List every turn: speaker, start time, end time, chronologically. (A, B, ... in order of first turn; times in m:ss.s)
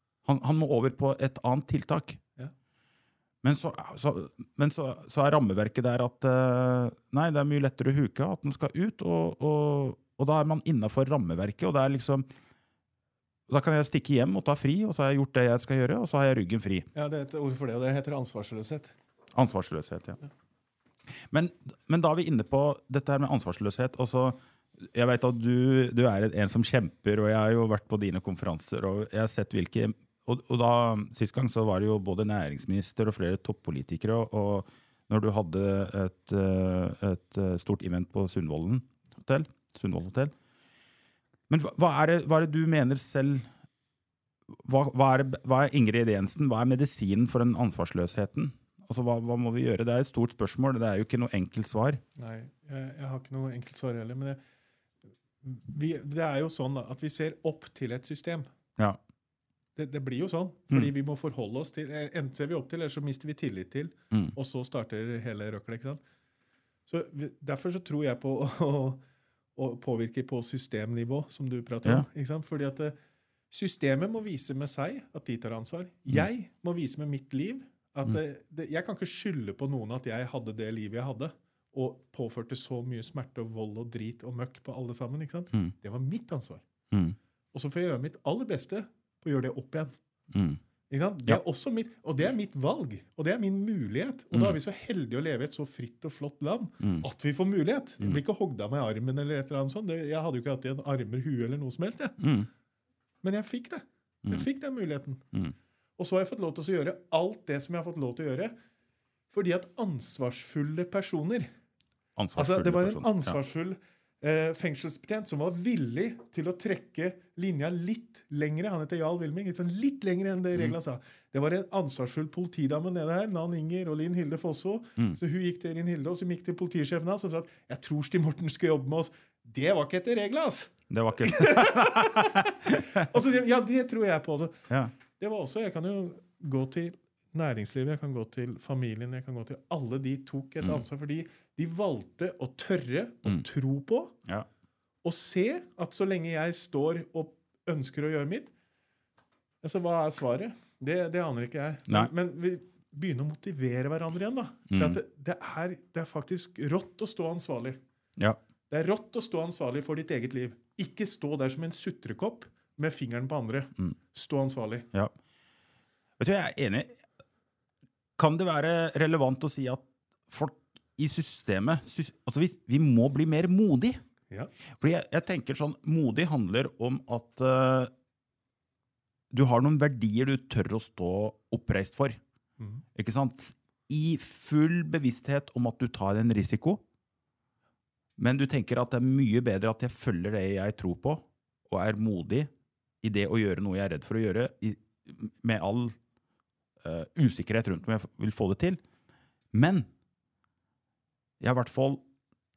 0:00.2-0:02.2 A
0:03.4-0:12.3 A
0:13.5-0:16.9 A
0:16.9-0:19.0 B
0:19.3-0:20.2 A
0:21.1-0:40.3 A
0:41.5-0:43.5 A
0:44.5-0:52.0 A
0:52.2-0:54.4 B
0:55.4-0:58.5 B
0:59.8-1:06.0 B
1:06.9-1:09.0 B
1:09.6-1:13.0 B
1:13.5-1:26.6 B
1:26.9-1:27.2 A
1:27.5-1:29.9 B
1:30.3-1:30.6 A
1:30.9-1:42.2 B
1:36.8-1:37.0 A
1:42.2-1:42.5 A
1:43.2-1:45.2 B
1:46.0-1:48.6 B
1:49.3-1:51.5 B
1:52.2-1:53.4 A
1:52.4-2:24.2 B
2:10.9-2:13.0 A
2:25.0-2:28.5 B
2:29.6-2:37.8 B
2:34.7-2:35.0 A
2:38.7-2:44.9 B
2:46.2-2:47.0 A
2:48.2-2:54.0 A
2:54.8-2:57.9 A
2:59.3-3:02.2 A
3:02.6-3:02.8 B
3:03.0-3:06.8 A
3:08.2-3:12.5 A
3:13.0-3:16.0 A
3:16.8-3:18.8 A
3:19.5-3:19.9 A
3:21.4-3:22.0 A